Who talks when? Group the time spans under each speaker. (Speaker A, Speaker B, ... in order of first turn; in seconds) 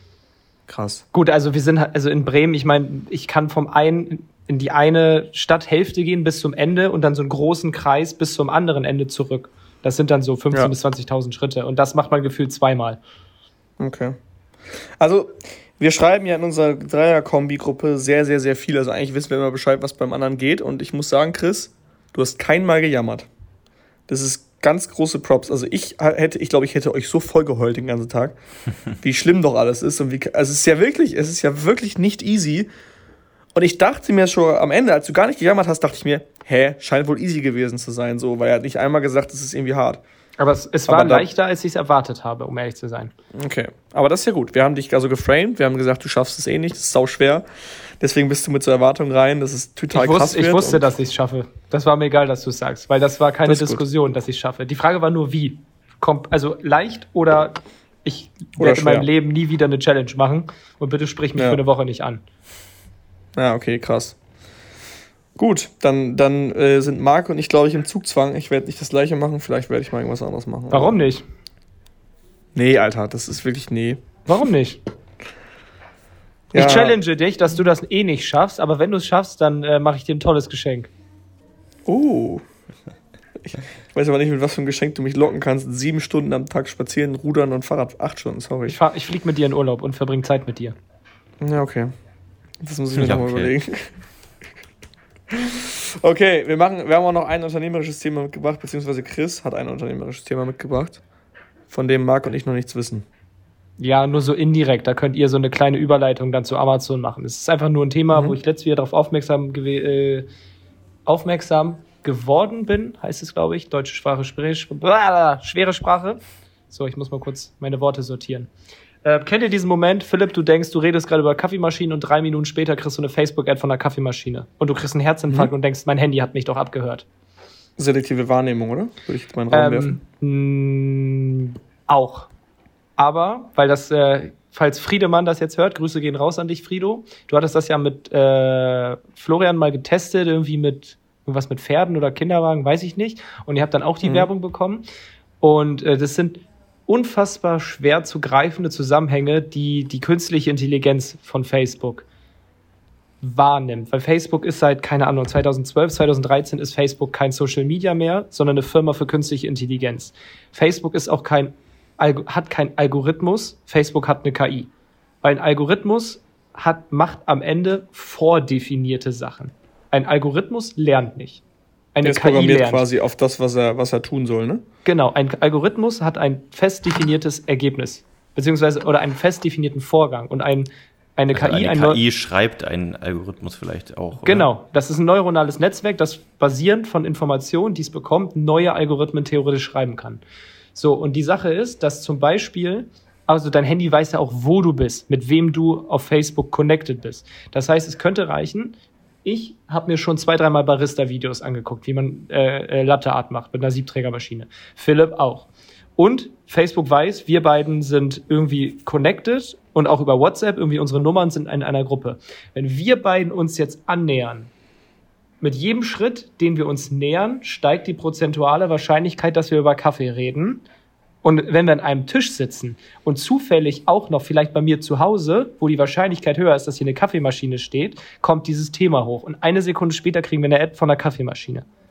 Speaker A: 0.7-1.0, 13.8-14.2, 15.0-23.3, 24.1-28.3, 29.0-32.7, 33.5-40.0, 40.9-41.3, 43.3-47.5, 48.0-50.9, 53.5-53.8, 58.6-59.1, 61.3-61.6, 63.4-64.2, 65.3-71.0, 72.5-74.0, 76.5-77.0, 81.8-82.4, 83.4-88.8, 91.4-91.9, 92.6-93.9, 95.3-101.0, 101.7-103.0, 127.8-130.0, 172.0-174.6
Speaker B: 1.1-13.0, 40.4-43.1, 49.9-62.2, 70.7-71.2, 74.3-74.8, 76.5-80.9, 88.7-90.8, 103.8-110.3, 111.0-118.5, 119.0-127.0, 129.5-132.3, 133.0-144.8, 145.4-152.1, 153.2-164.7, 165.2-171.4, 171.9-172.8, 174.8-182.0, 184.2-190.2, 190.7-214.5, 215.4-220.6, 221.2-231.7
Speaker C: 92.9-93.5, 181.3-184.5